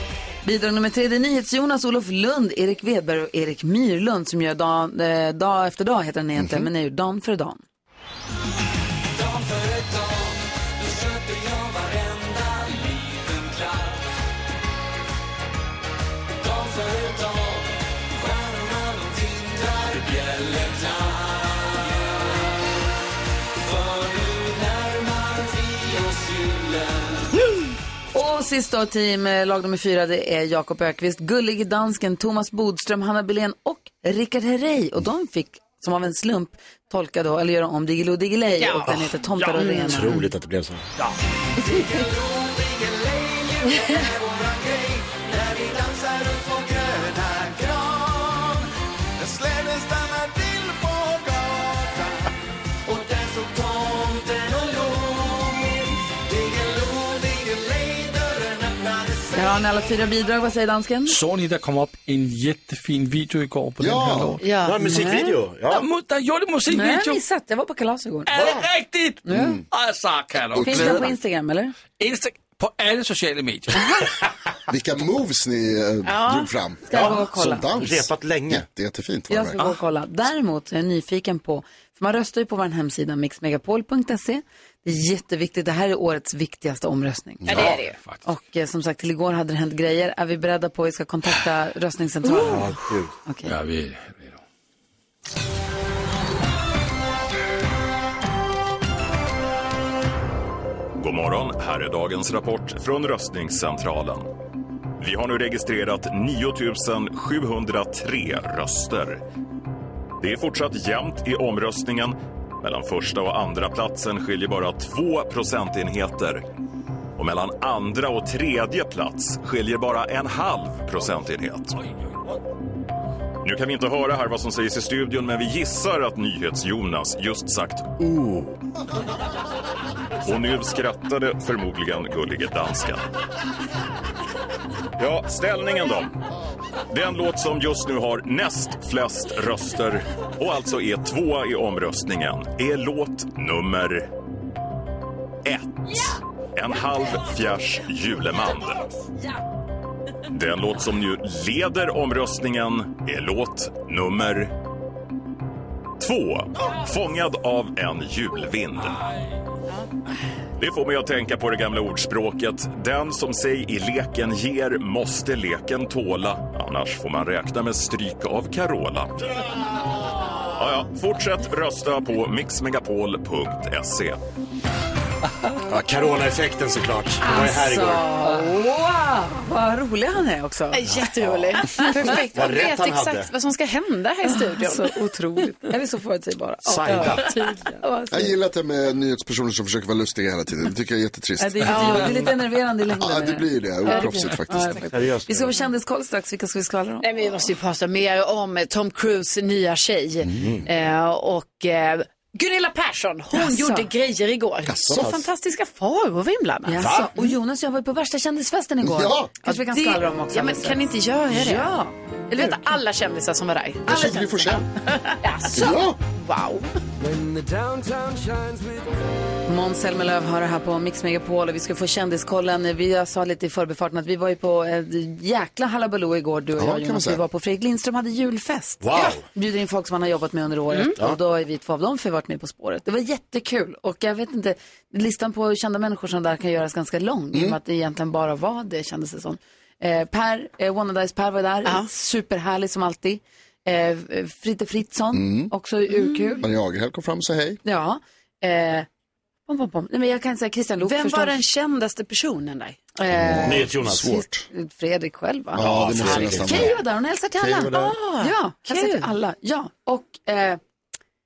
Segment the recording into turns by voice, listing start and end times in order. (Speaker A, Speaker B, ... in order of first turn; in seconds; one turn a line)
Speaker A: 0.5-7.6
Speaker B: 6.4-6.7
Speaker A: 28.1-40.2
Speaker C: 38.6-38.9
Speaker D: 39.2-39.6
Speaker E: 39.7-40.8
Speaker A: 59.3-61.2
Speaker D: 61.1-64.4
Speaker B: 63.8-64.4
Speaker C: 64.4-65.2
Speaker E: 64.7-65.8
Speaker A: 64.8-65.2
Speaker D: 65.7-67.2
Speaker A: 66.7-68.3
Speaker D: 68.3-71.1
Speaker E: 68.4-68.6
Speaker A: 69.2-69.6
Speaker B: 69.3-69.6
Speaker B: 70.5-71.1
Speaker A: 70.6-71.8
Speaker D: 71.9-74.0
Speaker B: 74.7-79.6
Speaker C: 76.0-76.5
Speaker A: 76.9-77.7
Speaker E: 76.9-78.7
Speaker A: 79.3-92.7
Speaker C: 87.5-88.0
Speaker D: 87.8-88.2
Speaker E: 92.3-93.1
Speaker A: 93.3-93.5
Speaker D: 93.4-94.4
Speaker F: 101.0-104.3
Speaker F: 105.0-109.2
Speaker F: 110.2-116.4
Speaker F: 117.2-121.8
Speaker F: 123.4-128.1
Speaker F: 130.2-133.0
Speaker F: 135.0-136.1
Speaker F: 136.9-144.1
Speaker F: 145.4-148.8
Speaker F: 150.3-154.5
Speaker F: 156.0-159.0
Speaker F: 160.6-169.2
Speaker F: 170.5-174.2
Speaker E: 175.6-178.1
Speaker A: 177.2-180.8
Speaker C: 180.7-184.9
Speaker E: 180.9-183.3
Speaker A: 181.8-182.2
Speaker A: 184.3-188.4
Speaker E: 186.7-187.3
Speaker C: 186.9-187.8
Speaker B: 188.1-192.2
Speaker A: 191.4-197.1
Speaker C: 191.7-192.3
Speaker B: 193.0-195.0
Speaker C: 193.9-194.3
Speaker E: 194.9-195.5
Speaker C: 197.0-207.0
Speaker E: 200.4-200.7
Speaker A: 203.3-203.9
Speaker B: 204.7-205.1
Speaker E: 204.9-205.2
Speaker A: 206.7-212.8
Speaker E: 206.8-207.1
Speaker B: 208.8-209.3
Speaker C: 209.4-211.8
Speaker C: 212.3-216.7
Speaker B: 213.9-214.7
Speaker B: 215.5-216.0
Speaker A: 219.5-246.5
Speaker B: 226.6-227.2
Speaker E: 228.8-229.2
Speaker B: 237.3-237.6
Speaker B: 245.1-245.5
Speaker C: 245.9-246.4
Speaker B: 246.4-247.6
Speaker A: 247.7-248.9
Speaker A: 249.5-251.4
Speaker C: 250.8-252.9
Speaker A: 253.0-260.6
Speaker B: 253.1-254.5
Speaker E: 253.3-254.2
Speaker B: 255.5-256.8
Speaker E: 255.6-256.7
Speaker C: 256.1-256.8
Speaker B: 257.4-257.7
Speaker E: 257.5-257.9
Speaker C: 257.7-259.1